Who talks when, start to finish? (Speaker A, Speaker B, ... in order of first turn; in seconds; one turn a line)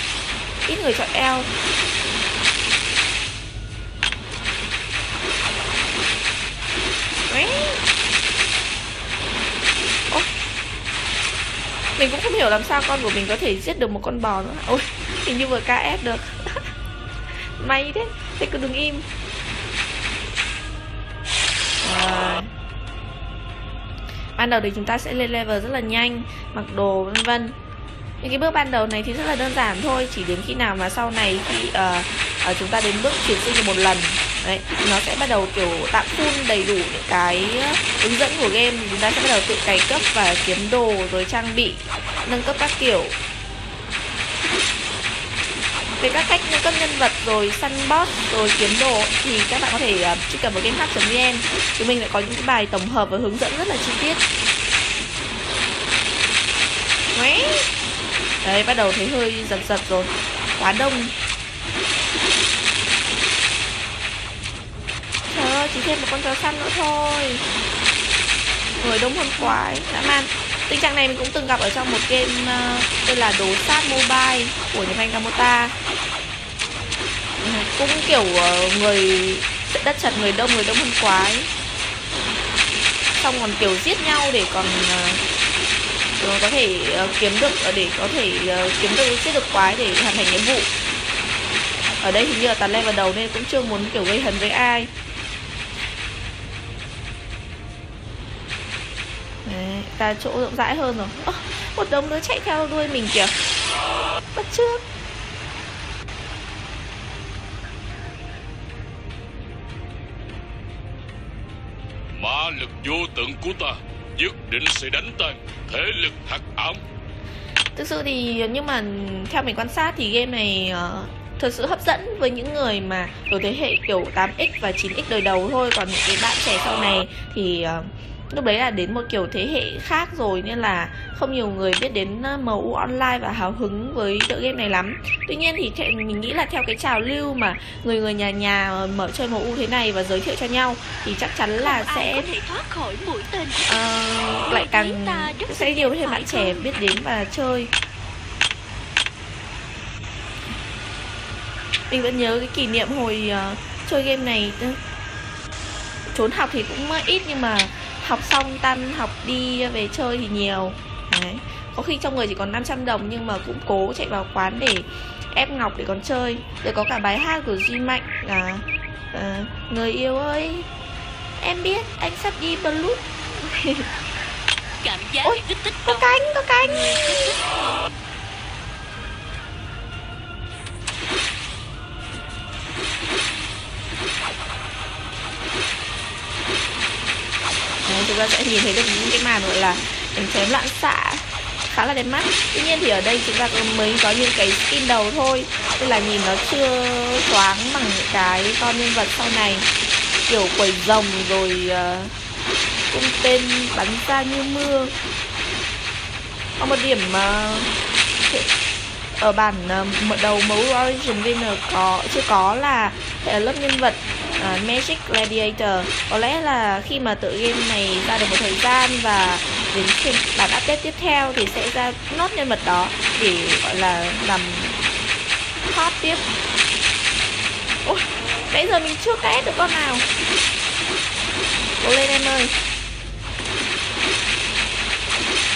Speaker A: 0.7-1.5
Speaker A: 7.3-7.8
Speaker A: 12.0-16.3
Speaker A: 17.6-19.1
Speaker A: 21.8-22.5
Speaker A: 24.4-27.6
Speaker A: 28.2-43.2
Speaker A: 46.0-54.2
Speaker A: 57.1-57.7
Speaker A: 58.4-61.1
Speaker A: 65.3-67.4
Speaker A: 68.8-75.8
Speaker A: 77.4-81.5
Speaker A: 83.1-85.2
Speaker A: 86.2-90.7
Speaker A: 92.0-94.9
Speaker A: 99.5-103.3
Speaker A: 104.3-104.8
Speaker B: 112.1-116.8
Speaker A: 117.8-142.3
Speaker C: 141.6-143.9
Speaker A: 143.7-147.7
Speaker C: 144.4-146.6
Speaker A: 151.9-154.8
Speaker A: 156.1-170.7
Speaker A: 171.4-173.9
Speaker C: 174.8-178.0
Speaker A: 175.2-177.3
Speaker A: 187.8-199.7
Speaker A: 200.3-202.1
Speaker A: 202.9-204.9
Speaker A: 206.6-207.7
Speaker A: 209.2-224.8
Speaker A: 225.7-226.3
Speaker A: 227.8-230.1
Speaker A: 231.8-232.5